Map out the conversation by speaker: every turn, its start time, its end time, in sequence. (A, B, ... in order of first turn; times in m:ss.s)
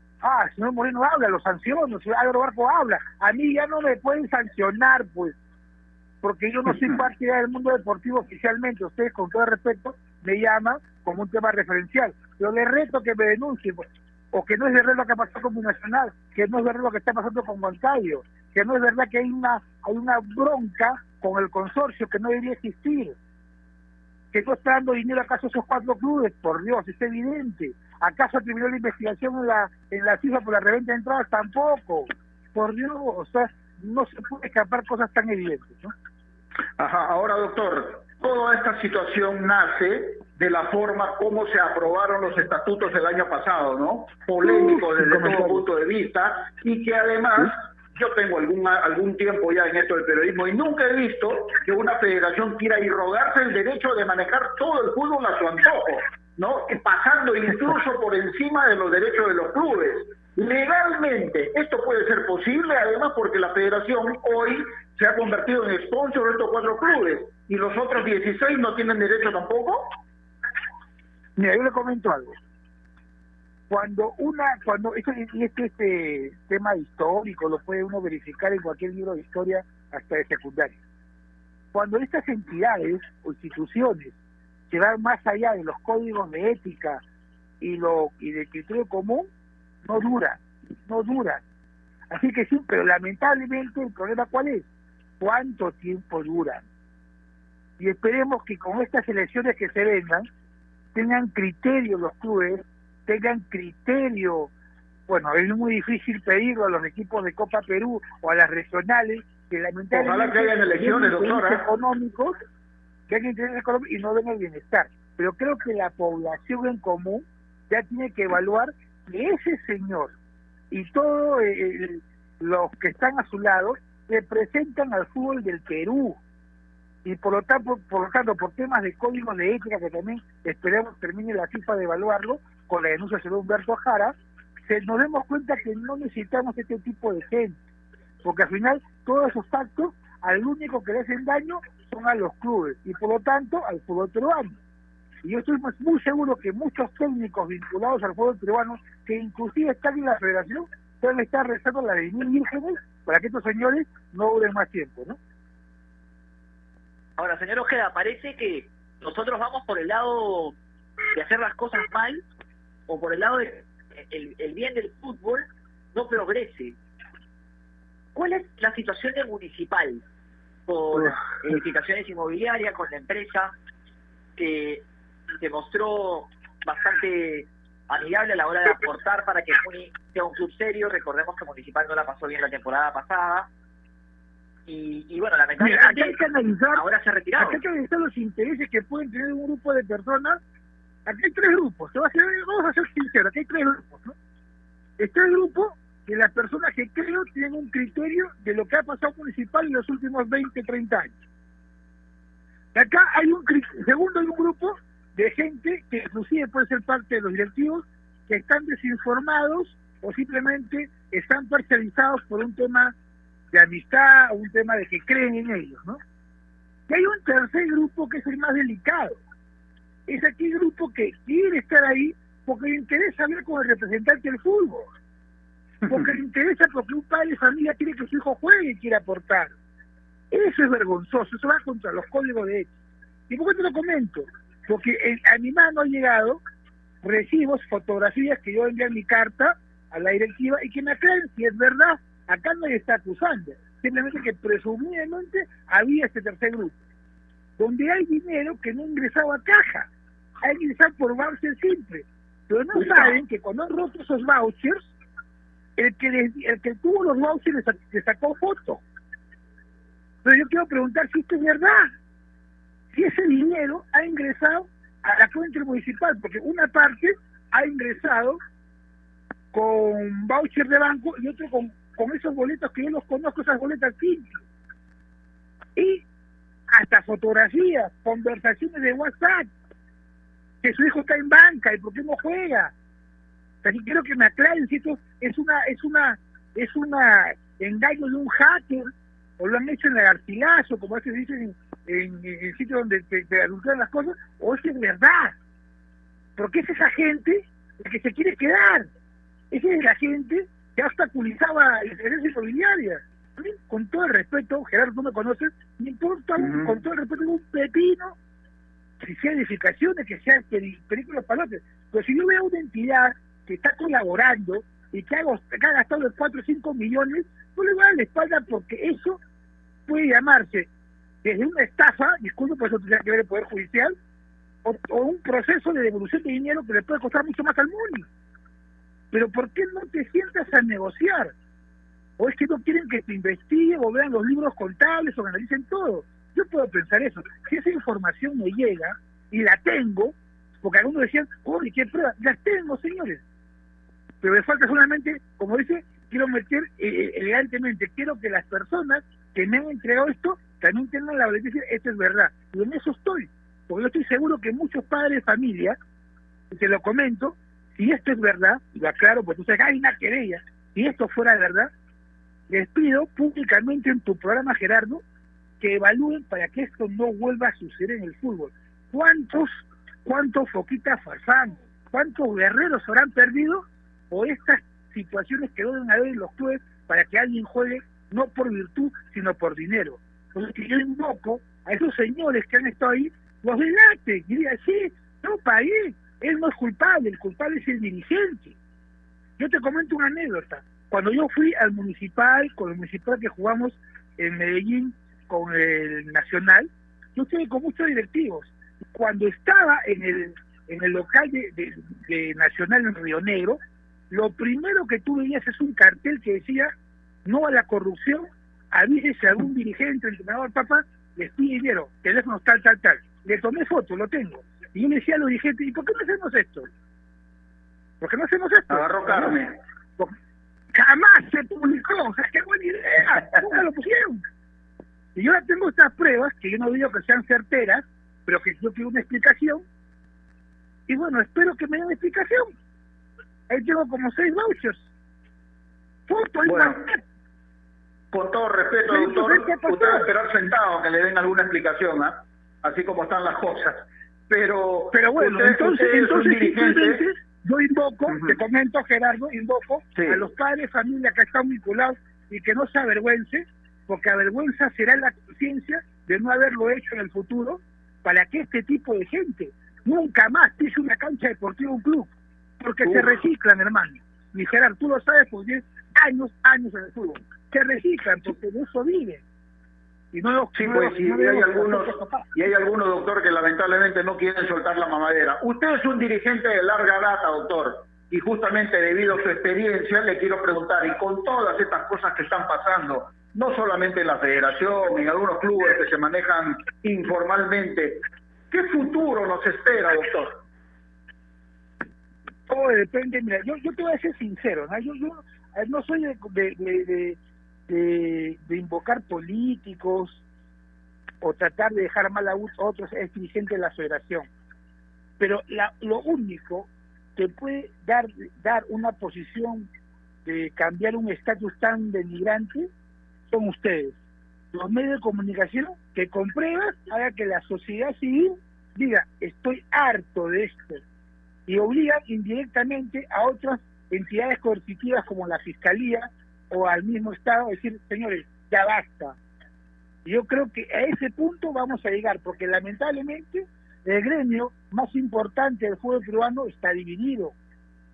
0:00.2-0:05.4 A
0:06.2-0:23.2 A
0:24.3-0:35.9 A
0:36.8-1:09.8 B
0:44.4-0:45.6 A
1:11.4-1:12.4 A
1:13.7-1:20.8 A
1:21.7-1:24.2 A
1:24.7-1:27.0 A
1:27.6-1:29.3 A
1:29.8-1:31.4 A
1:32.1-1:34.7 A
1:35.2-1:36.6 A
1:37.8-1:40.3 A
1:41.0-1:44.5 A
1:45.1-1:52.4 A
1:49.9-1:51.7 B
1:53.1-2:00.2 A
2:00.7-2:06.2 A
2:07.0-2:14.1 A
2:14.7-2:17.6 A
2:18.2-2:24.6 A
2:25.2-2:35.2 A
2:37.2-2:40.6 C
2:41.1-2:42.2 C
2:42.9-2:46.8 C
2:48.2-2:50.0 C
2:50.7-2:53.5 C
2:54.4-2:54.8 C
2:55.4-3:03.5 C
3:04.7-3:06.2 C
3:05.6-3:06.9 A
3:06.7-3:07.6 C
3:07.4-3:10.4 A
3:11.1-3:14.2 A
3:15.0-3:21.2 A
3:22.8-3:32.9 A
3:33.5-3:36.0 A
3:36.9-3:39.2 A
3:40.1-3:44.9 A
3:45.8-3:49.5 A
3:50.3-3:52.7 A
3:53.3-3:56.4 A
3:57.0-4:06.8 A
4:07.6-4:09.9 A
4:10.4-4:14.9 A
4:12.8-4:13.2 B
4:15.8-4:18.8 A
4:20.2-4:21.9 A
4:22.9-4:28.4 A
4:29.5-4:34.3 A
4:35.8-4:36.0 A
4:36.7-4:39.5 A
4:40.6-4:42.7 A
4:43.6-4:55.3 A
4:56.4-4:58.9 A
4:59.5-5:08.2 A
5:06.4-5:06.8 B
5:09.0-5:19.2 A
5:19.9-5:20.7 A
5:21.2-5:24.0 A
5:24.6-5:28.1 A
5:29.1-5:31.3 A
5:32.2-5:43.2 A
5:44.2-5:55.8 A
5:56.5-6:01.7 A
6:02.5-6:05.0 A
6:05.6-6:28.6 A
6:29.4-6:43.6 A
6:44.1-6:46.7 A
6:47.3-6:56.7 A
6:58.0-6:59.4 A
6:58.7-6:59.6 B
7:00.7-7:04.2 A
7:05.2-7:09.6 A
7:10.9-7:12.5 A
7:13.5-7:14.9 A
7:16.1-7:17.0 A
7:16.4-7:16.8 B
7:18.1-7:27.0 B
7:18.9-7:20.1 A
7:24.9-7:49.2 A
7:28.1-7:28.4 B
7:30.0-7:30.2 B
7:42.8-7:43.2 B
7:50.1-7:52.3 A
7:50.6-8:10.3 B
8:12.5-8:17.2 A
8:17.7-8:20.2 A
8:21.2-8:24.3 A
8:25.2-8:29.7 A
8:30.2-8:32.7 A
8:33.3-8:34.0 A
8:34.5-8:40.8 A
8:41.5-8:49.2 A
8:50.0-8:57.4 A